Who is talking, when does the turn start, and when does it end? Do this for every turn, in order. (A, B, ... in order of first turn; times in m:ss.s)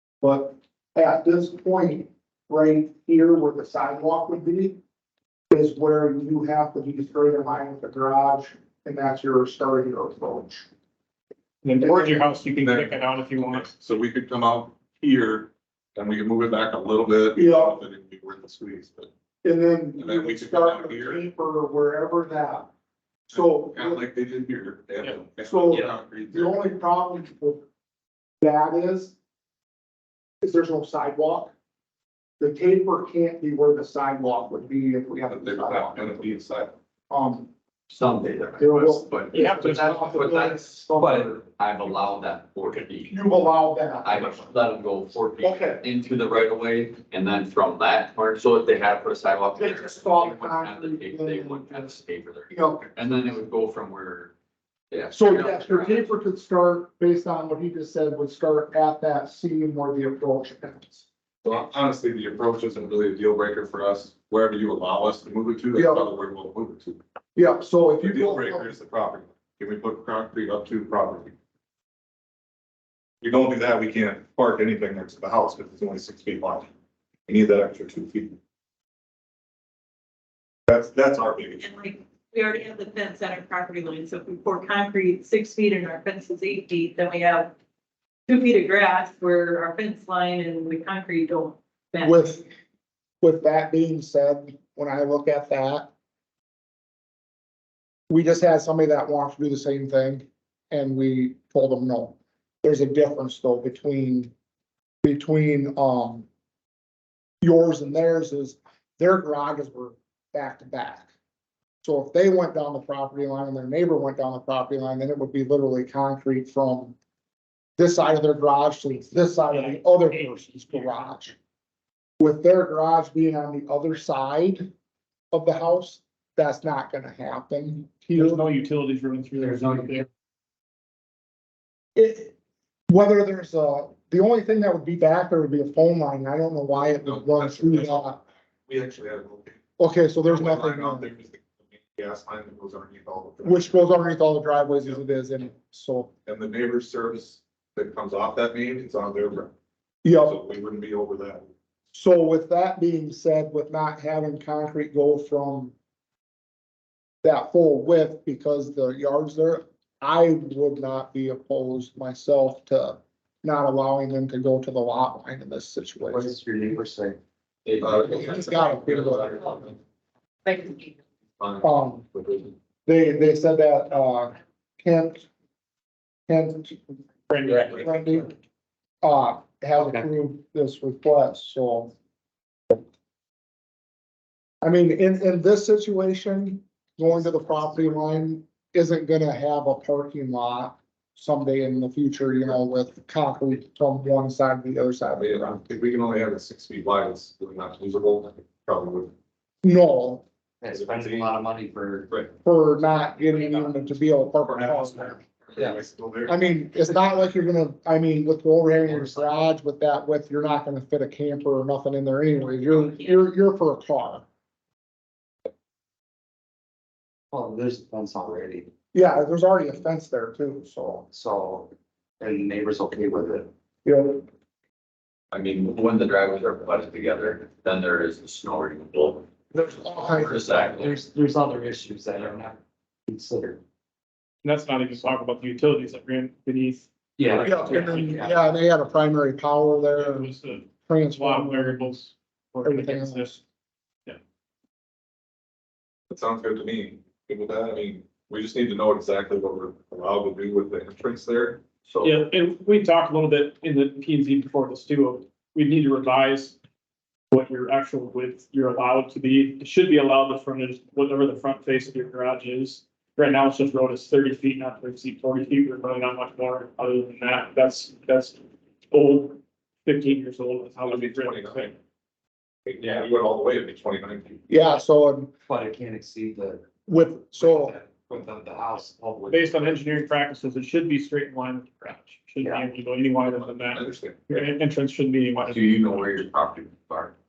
0:00.2-0:04.8 A
0:05.5-0:10.7 A
0:11.6-0:13.7 B
0:11.8-0:12.2 A
0:12.5-0:19.1 C
0:17.4-0:17.8 A
0:19.4-0:22.7 A
0:20.0-0:21.2 C
0:23.3-0:24.0 A
0:23.3-0:26.6 C
0:25.4-0:27.6 A
0:28.4-0:29.1 A
0:30.4-0:31.5 A
0:32.4-0:36.1 A
0:35.3-0:36.7 C
0:37.1-0:37.5 A
0:37.9-0:43.2 D
0:38.6-0:41.3 A
0:39.3-0:40.2 B
0:41.0-0:41.2 E
0:43.1-0:44.5 A
0:44.0-0:54.3 D
0:45.4-0:45.8 A
0:49.6-0:52.9 A
0:54.9-0:56.1 D
0:55.1-1:01.0 A
1:01.4-1:07.0 C
1:05.7-1:06.0 A
1:07.4-1:08.7 A
1:08.0-1:11.3 C
1:13.2-1:16.7 C
1:17.3-1:18.4 C
1:20.7-1:21.6 C
1:21.6-1:27.5 F
1:28.3-1:32.2 F
1:32.0-1:32.5 A
1:33.2-1:35.9 A
1:38.1-1:44.3 A
1:45.0-1:46.3 A
1:47.4-1:51.1 A
1:51.8-1:56.9 A
1:57.8-2:01.4 A
1:59.5-2:01.1 B
2:02.2-2:04.7 A
2:05.3-2:08.4 A
2:08.1-2:10.0 B
2:09.4-2:10.0 E
2:12.0-2:12.3 A
2:12.9-2:18.2 A
2:16.8-2:19.6 C
2:19.8-2:21.1 A
2:20.3-2:23.7 C
2:23.4-2:26.1 A
2:26.2-2:29.5 C
2:30.0-2:30.4 A
2:30.2-2:31.5 C
2:31.9-2:35.7 A
2:37.2-2:46.3 A
2:46.1-2:47.2 E
2:47.6-2:49.6 D
2:47.8-2:49.2 C
2:48.0-2:49.6 A
2:50.5-2:50.9 F
2:51.6-2:52.1 A
2:52.8-2:55.3 A
2:56.3-2:58.3 A
2:57.3-2:58.0 B
2:59.0-3:01.9 A
2:59.8-3:00.1 E
3:04.6-3:15.6 A
3:15.1-3:19.1 C
3:19.6-3:20.2 A
3:20.6-3:22.1 E
3:20.7-3:21.4 C
3:22.4-3:25.2 A
3:24.4-3:26.4 C
3:26.3-3:34.2 A
3:28.9-3:29.4 E
3:37.3-3:38.7 E
3:38.9-3:41.1 A
3:41.1-3:43.5 E
3:43.8-3:44.2 A
3:45.3-3:49.3 D
3:49.5-3:50.7 A
3:50.0-3:51.0 D
3:50.7-3:53.6 E
3:54.4-3:58.3 B
3:57.2-3:58.4 E
3:57.4-4:00.3 A
3:59.9-4:03.3 B
4:00.8-4:02.0 A
4:02.6-4:03.4 A
4:06.1-4:11.6 C
4:11.8-4:12.3 D
4:12.0-4:16.6 B
4:17.3-4:28.4 B
4:28.9-4:31.7 B
4:30.8-4:31.8 C
4:32.6-4:34.4 C
4:34.5-4:35.3 A
4:35.5-4:36.7 E
4:36.8-4:37.8 A
4:37.4-4:39.8 E
4:39.3-4:45.7 B
4:43.2-4:44.4 C
4:45.5-4:47.1 D